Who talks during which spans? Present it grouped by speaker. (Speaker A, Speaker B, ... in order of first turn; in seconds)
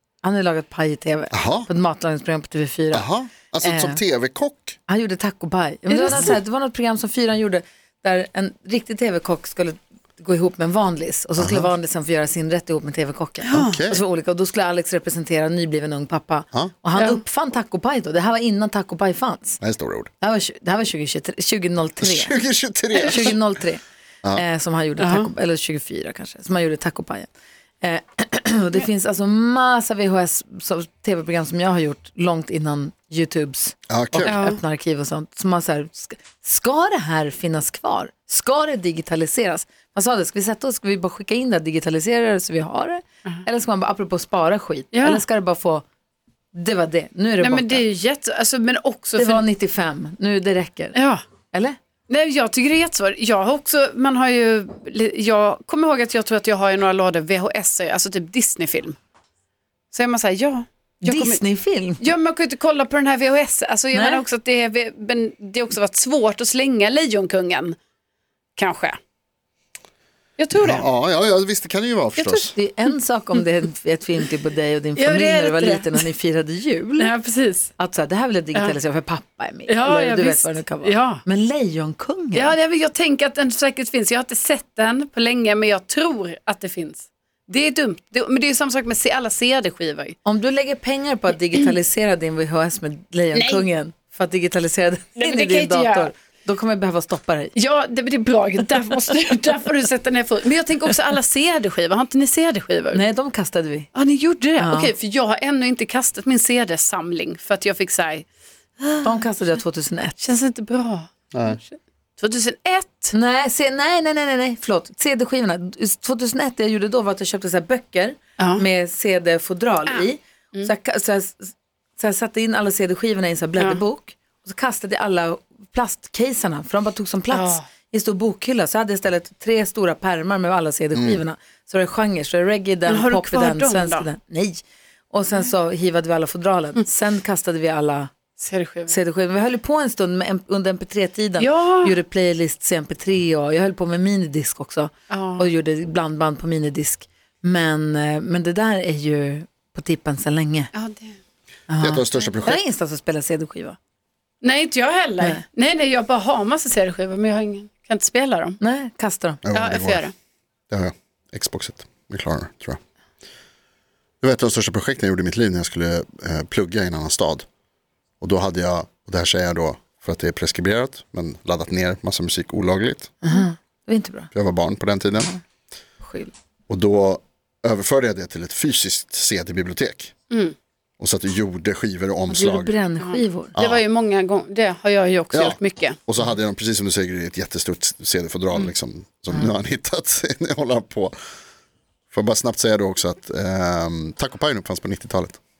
Speaker A: 0.2-3.1, 3.6-4.0, 4.9-19.6, 20.2-22.3, 22.9-23.8, 24.3-27.3, 27.8-45.8, 46.5-47.8, 49.1-51.0, 51.5-51.8, 61.0-62.0, 63.9-64.2, 72.5-77.1, 77.8-82.5, 90.2-97.5, 102.9-103.9, 104.6-104.9, 109.0-110.2, 113.1-138.1, 138.9-150.7, 151.7-153.8, 158.6-159.4, 173.2-174.3, 176.0-176.3, 182.3-183.5
Speaker B: 1.3-1.7, 2.9-4.8, 11.4-11.7, 13.5-14.0, 19.6-20.1, 22.0-23.5, 33.9-34.3, 70.5-72.5, 111.3-111.6, 130.9-131.2, 151.8-152.6, 159.4-160.1, 160.7-162.8, 164.2-167.4, 168.2-173.1, 174.3-175.3, 176.7-180.1, 181.0-182.7, 183.5-183.8, 185.3-191.1, 192.1-195.4
Speaker C: 5.9-6.3, 13.4-13.8, 16.9-17.2, 25.0-25.3, 34.2-34.6, 44.9-45.2, 47.4-49.5, 50.9-51.2, 52.1-59.0, 59.9-61.4, 62.0-67.8, 68.5-69.0, 70.4-70.9, 72.2-72.5, 75.0-76.0, 77.0-77.7, 79.7-81.2, 82.3-90.2, 93.3-93.7, 95.2-96.1, 97.5-103.0, 103.9-108.3, 108.8-109.1, 110.2-113.1, 118.4-118.6, 119.9-120.7, 127.3-127.6, 132.8-134.1, 138.4-138.9, 141.4-142.0, 145.1-145.5, 150.7-151.2, 154.4-158.6, 159.5-160.1, 183.0-186.0